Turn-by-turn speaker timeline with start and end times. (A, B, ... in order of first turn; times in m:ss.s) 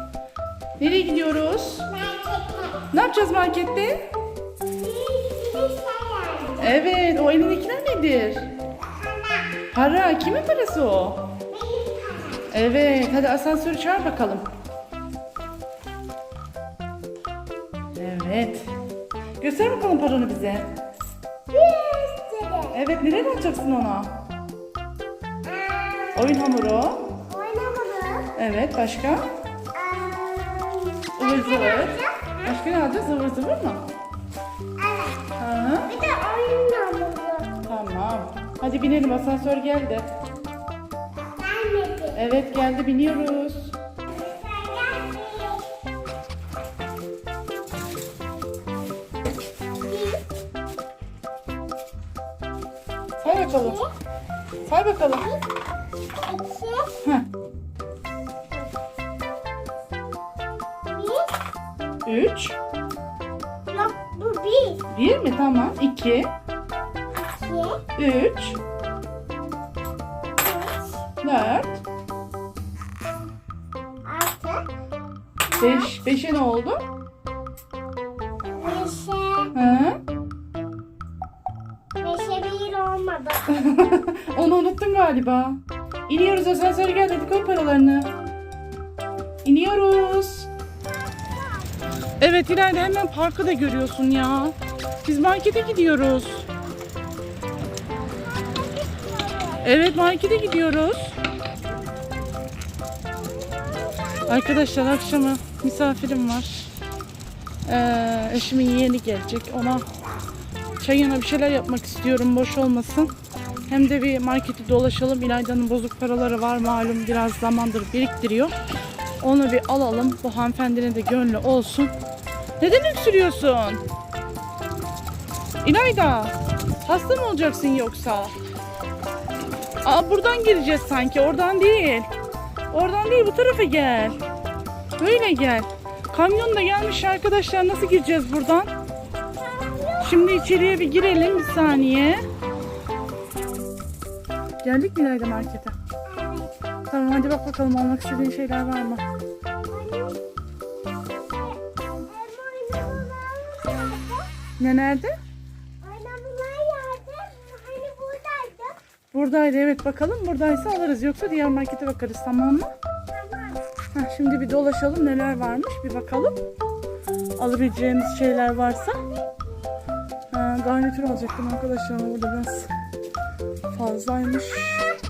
0:00.8-0:01.9 A
0:01.9-0:02.9 B
0:02.9-0:04.1 A
0:04.8-0:06.7 B
0:06.6-0:08.5 A
0:09.0-0:09.6 B
0:09.7-0:11.3 A
0:11.5-0:12.5 B
0:12.5-0:14.4 A
0:18.0-0:18.7 A
0:19.4-0:20.7 A
0:21.5-0:22.8 B
0:22.7-0:24.1 A
0:25.5-0:26.2 B
0:26.1-0:27.1 A
0:27.3-0:28.3 B
0:28.4-0:29.2 A
0:29.7-0:32.5 B
0:31.2-0:33.8 A
0:34.8-0:35.2 B
0:35.4-0:35.9 A
0:35.9-0:37.5 B
0:37.6-0:40.1 A
0:41.3-0:42.2 B
0:42.2-0:43.8 A
0:44.1-0:45.7 B
0:49.9-0:50.2 B
0:53.2-0:53.8 A
0:53.2-0:53.9 B
0:54.7-0:55.3 A
0:55.1-0:55.4 B
0:56.2-0:57.0 B
1:00.9-1:01.4 B
1:02.0-1:02.6 A
1:03.7-1:04.8 B
1:04.9-1:06.3 A
1:07.2-1:07.8 B
1:08.0-1:08.6 A
1:10.4-1:11.0 B
1:11.2-1:11.8 A
1:14.0-1:14.7 B
1:15.5-1:15.9 B
1:15.6-1:16.8 A
1:18.6-1:19.6 B
1:19.5-1:20.0 A
1:22.0-1:23.6 B
1:23.5-1:28.1 A
1:29.4-1:30.5 A
1:30.8-1:31.7 B
1:32.2-1:36.5 A
1:38.2-1:39.6 B
1:39.6-1:41.2 A
1:43.2-1:45.0 B
1:44.3-1:46.7 A
1:47.7-1:49.9 A
1:50.8-1:53.1 A
1:53.7-1:58.5 A
1:59.2-2:01.9 A
2:02.6-2:03.8 A
2:05.6-2:08.3 A
2:09.8-2:12.1 A
2:12.7-2:14.2 A
2:15.0-2:18.7 A
2:19.4-2:21.6 B
2:20.0-2:22.2 A
2:24.6-2:25.8 A
2:26.1-2:26.5 B
2:26.9-2:29.0 A
2:29.7-2:30.2 B
2:31.3-2:34.3 B
2:34.6-2:35.1 A
2:35.8-2:38.8 B
2:39.1-2:42.7 A
2:43.1-2:43.6 B
2:43.9-2:46.4 A
2:47.4-2:49.0 A
2:48.5-2:49.4 B
2:50.3-2:52.7 A
2:53.7-2:54.8 A